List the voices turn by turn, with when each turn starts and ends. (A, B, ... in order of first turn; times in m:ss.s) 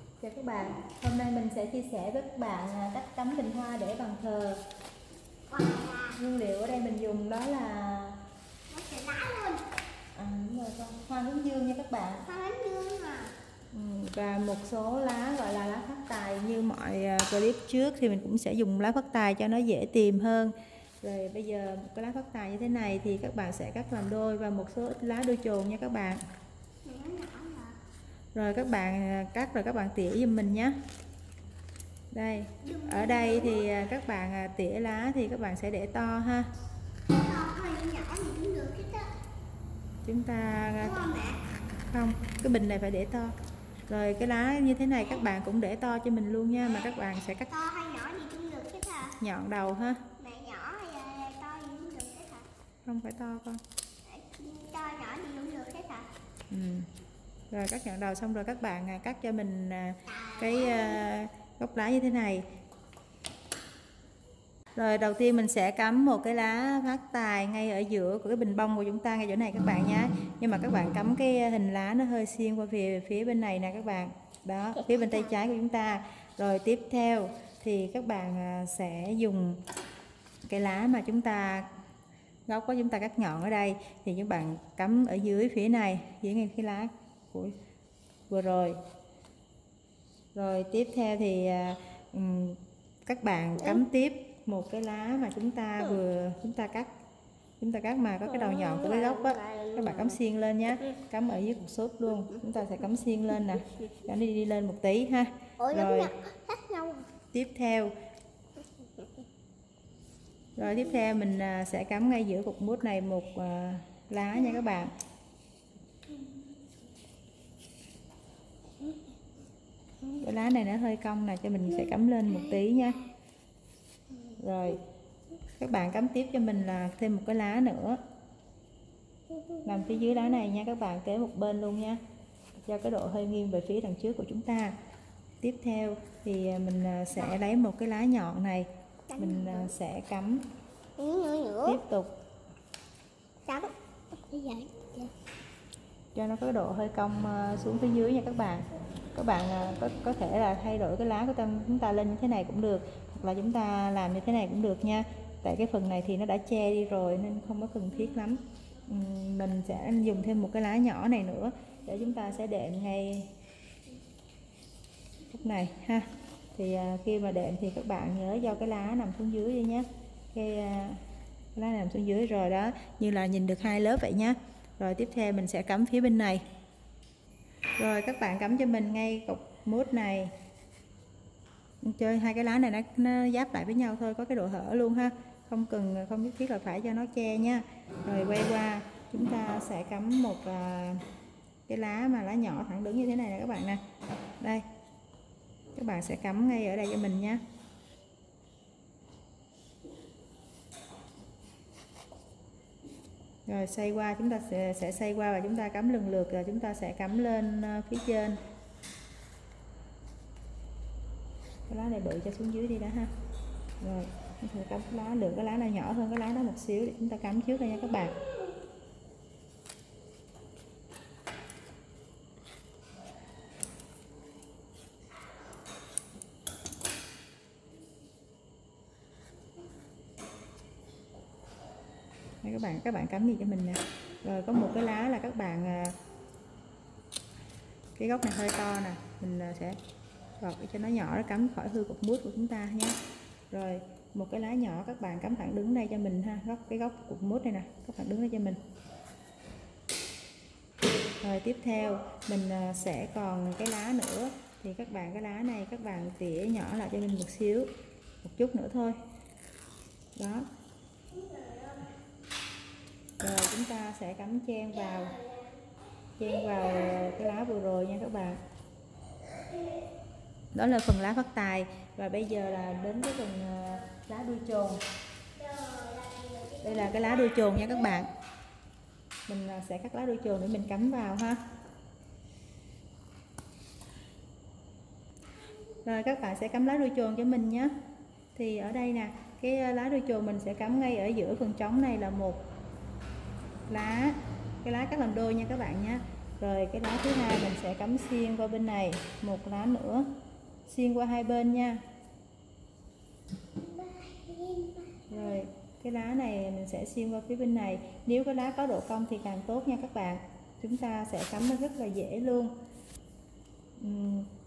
0:00.2-0:04.6 A
0:05.5-0:06.2 B
0:06.2-0:08.2 A
0:08.7-0:09.6 B
0:10.2-0:12.3 A
0:12.2-0:13.3 B
0:13.7-0:26.2 A
0:26.8-0:27.8 B
0:28.3-0:30.8 A
0:32.1-0:36.5 A
0:32.6-0:33.7 B
0:37.1-0:39.1 B
0:40.0-0:41.0 A
0:40.8-0:41.4 B
0:41.9-0:43.3 A
0:43.9-0:47.5 A
0:47.5-0:49.2 B
0:49.2-0:50.1 A
0:50.2-0:52.5 B
0:52.8-0:53.6 A
0:54.0-0:56.1 B
0:56.5-0:56.9 A
0:57.5-1:02.5 A
1:00.1-1:01.0 B
1:04.8-1:19.6 A
1:14.9-1:15.3 B
1:20.5-1:21.7 A
1:22.5-1:27.6 A
1:28.3-1:28.8 A
1:30.4-1:36.9 A
1:37.6-1:46.1 A
1:38.2-1:40.2 B
1:45.6-1:47.1 B
1:47.3-1:47.9 A
1:50.6-1:54.9 A
2:00.2-2:03.0 A
2:01.7-2:02.6 B
2:04.4-2:04.8 A
2:05.6-2:08.0 A
2:09.3-2:10.4 B
2:09.7-2:12.0 A
2:12.7-2:14.8 A
2:15.4-2:20.4 A
2:19.1-2:19.7 B
2:21.0-2:21.8 B
2:21.6-2:22.2 A
2:23.4-2:25.1 B
2:26.2-2:43.3 A
2:45.3-2:51.0 A
2:51.6-2:56.4 A
2:57.8-3:00.3 A
3:01.8-3:11.0 A
3:11.7-3:13.8 A
3:15.8-3:17.4 A
3:23.5-3:28.4 A
3:31.7-3:33.1 A
3:33.8-3:38.2 A
3:52.4-3:56.0 A
3:58.0-3:59.8 A
4:00.4-4:03.0 A
4:03.5-4:08.6 A
4:11.2-4:17.7 A
4:18.2-4:19.0 A
4:20.2-4:20.5 A
4:21.1-4:21.9 B
4:23.2-4:25.2 A
4:24.8-4:25.6 B
4:26.2-4:28.4 A
4:30.5-4:34.8 A
4:35.4-4:38.0 B
4:36.6-4:38.1 A
4:39.3-4:41.4 A
4:45.8-4:47.7 A
4:48.4-4:52.4 A
4:53.7-5:00.1 A
5:00.7-5:01.8 A
5:03.6-5:05.4 B
5:05.1-5:12.5 A
5:13.8-5:14.3 A